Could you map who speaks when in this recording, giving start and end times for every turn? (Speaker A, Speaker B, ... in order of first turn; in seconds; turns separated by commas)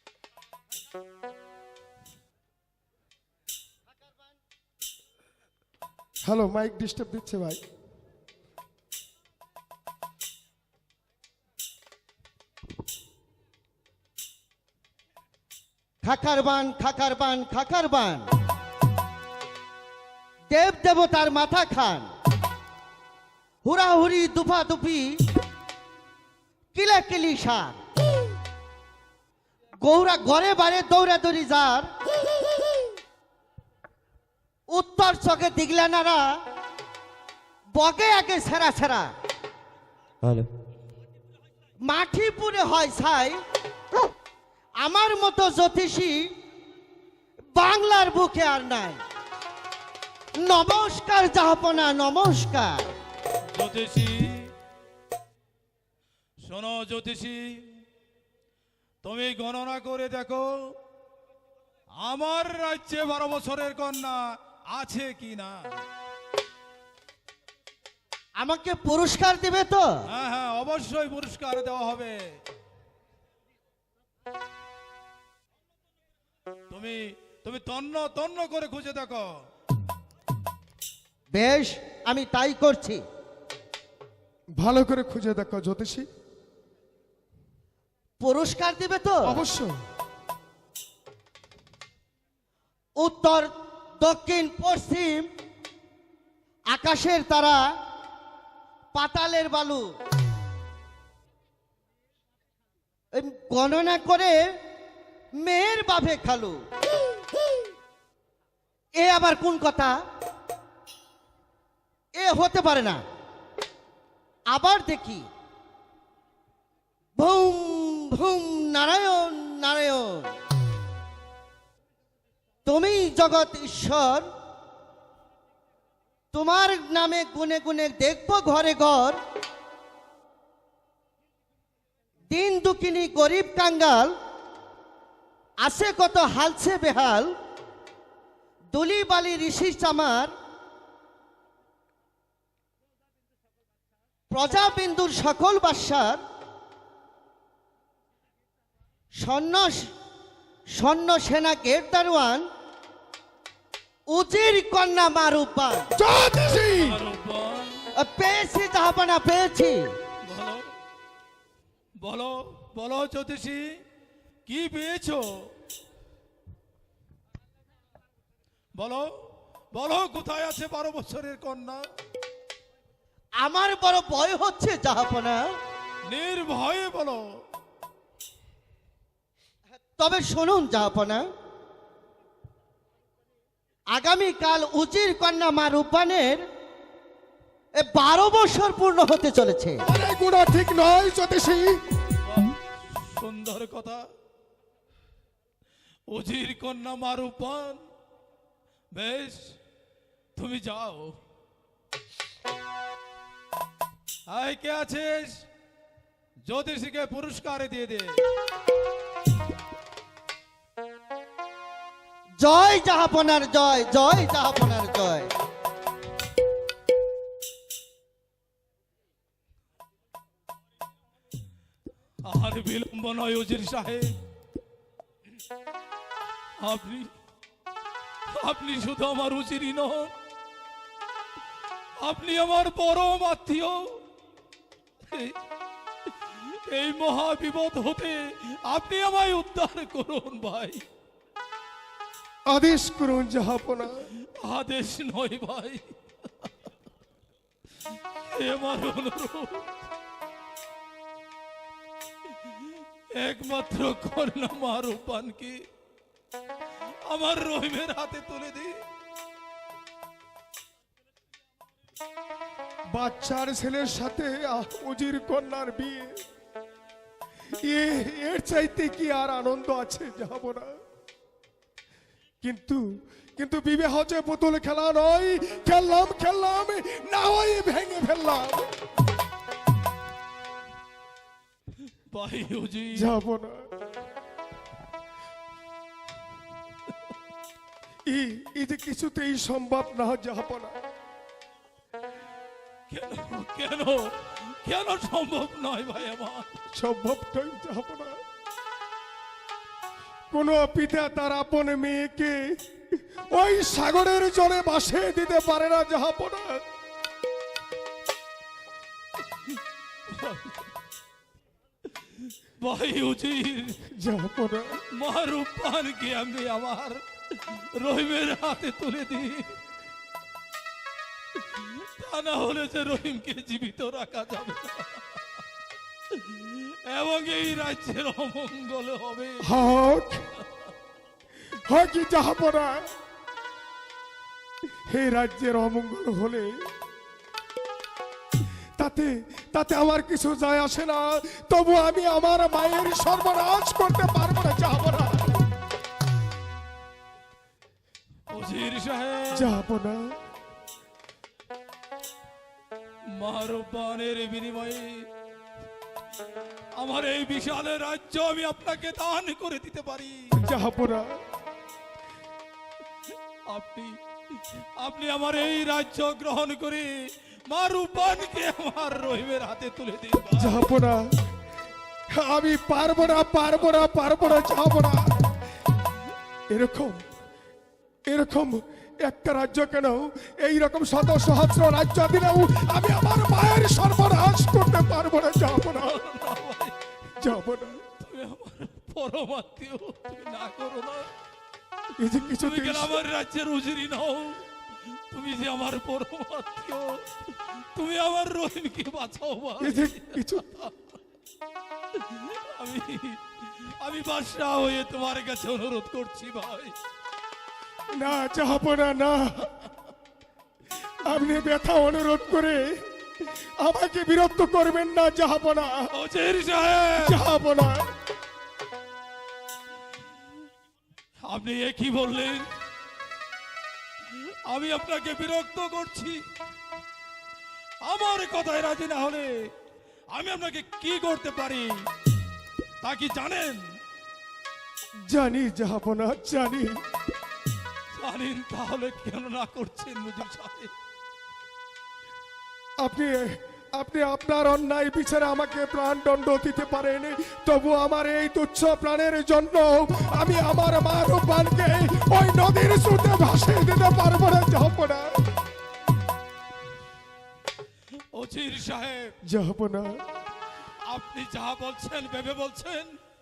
Speaker A: 6.3-7.6, Speaker B: 16.0-18.3, Speaker B: 20.5-22.1, Speaker B: 23.6-25.2, Speaker B: 26.7-27.8, Speaker B: 29.8-31.9, Speaker B: 34.7-36.4, Speaker B: 37.7-39.1, Speaker B: 41.8-43.4, Speaker B: 44.8-46.3, Speaker B: 47.5-49.0, Speaker B: 50.4-52.9, Speaker C: 53.5-54.5, Speaker C: 56.4-57.8, Speaker C: 59.0-60.5, Speaker C: 62.0-64.2, Speaker C: 64.7-65.6, Speaker B: 68.4-70.0, Speaker C: 70.1-72.2, Speaker C: 76.7-79.2, Speaker B: 81.3-83.0, Speaker A: 84.6-86.1, Speaker B: 88.2-89.4, Speaker A: 89.2-89.7, Speaker B: 93.0-93.5, Speaker B: 94.0-95.3, Speaker B: 96.7-97.6, Speaker B: 98.9-99.9, Speaker B: 103.1-104.4, Speaker B: 105.4-106.6, Speaker B: 109.0-110.0, Speaker B: 112.2-113.0, Speaker B: 114.5-115.3, Speaker B: 117.2-120.3, Speaker B: 122.7-124.3, Speaker B: 126.3-129.2, Speaker B: 132.3-134.1, Speaker B: 135.6-137.3, Speaker B: 138.7-140.3, Speaker B: 144.3-146.2, Speaker B: 149.2-149.9, Speaker B: 150.8-152.5, Speaker B: 154.1-155.9, Speaker A: 156.0-157.0, Speaker C: 156.8-157.9, Speaker B: 158.0-159.9, Speaker C: 160.2-160.7, Speaker C: 162.0-163.6, Speaker C: 164.5-165.2, Speaker C: 168.8-169.1, Speaker C: 169.7-171.8, Speaker B: 173.4-175.4, Speaker C: 176.1-177.2, Speaker B: 180.0-181.3, Speaker B: 183.9-186.4, Speaker B: 187.8-189.8, Speaker A: 189.9-191.8, Speaker C: 192.2-194.0, Speaker C: 196.1-197.8, Speaker C: 198.9-199.5, Speaker C: 200.3-201.2, Speaker C: 204.3-205.3, Speaker C: 206.4-208.2, Speaker B: 212.4-215.3, Speaker C: 222.2-224.2, Speaker C: 226.6-227.1, Speaker C: 228.4-230.1, Speaker C: 232.0-234.0, Speaker C: 235.0-235.3, Speaker C: 236.4-240.8, Speaker A: 242.5-244.0, Speaker C: 244.4-245.8, Speaker C: 248.3-249.7, Speaker C: 253.2-255.6, Speaker C: 257.1-258.7, Speaker A: 262.9-266.1, Speaker A: 267.7-270.7, Speaker A: 272.4-272.8, Speaker A: 273.4-278.7, Speaker C: 282.1-283.1, Speaker A: 282.9-283.7, Speaker A: 288.1-290.8, Speaker C: 292.9-296.5, Speaker A: 296.7-298.1, Speaker A: 300.3-302.4, Speaker A: 303.3-306.6, Speaker C: 310.1-310.7, Speaker C: 312.2-313.8, Speaker A: 314.0-314.8, Speaker C: 315.0-319.6, Speaker C: 321.5-325.0, Speaker C: 326.1-329.5, Speaker A: 329.4-330.2, Speaker A: 331.7-332.8, Speaker A: 334.9-336.5, Speaker A: 338.8-345.5, Speaker C: 348.3-349.4, Speaker A: 349.3-350.0, Speaker C: 353.2-355.1, Speaker C: 356.8-360.2, Speaker A: 360.3-361.2, Speaker C: 363.5-366.9, Speaker C: 367.5-370.7, Speaker A: 370.4-371.1, Speaker A: 372.1-375.2, Speaker A: 376.5-377.0, Speaker A: 378.1-386.0, Speaker C: 385.7-386.8, Speaker A: 387.2-387.8, Speaker C: 387.9-391.1, Speaker A: 392.0-393.0, Speaker C: 392.4-394.4, Speaker C: 395.1-401.0, Speaker A: 399.6-400.4, Speaker C: 401.9-406.8, Speaker A: 407.9-409.5, Speaker A: 411.0-412.7, Speaker A: 413.2-415.9, Speaker C: 415.9-417.2, Speaker A: 417.0-417.9, Speaker C: 421.3-422.5, Speaker C: 424.1-426.2, Speaker C: 427.8-429.5, Speaker C: 430.1-431.8, Speaker C: 432.8-433.6, Speaker A: 435.1-436.7, Speaker C: 437.9-440.7, Speaker A: 442.8-455.2, Speaker C: 458.1-459.1, Speaker A: 459.2-460.0, Speaker C: 460.9-463.0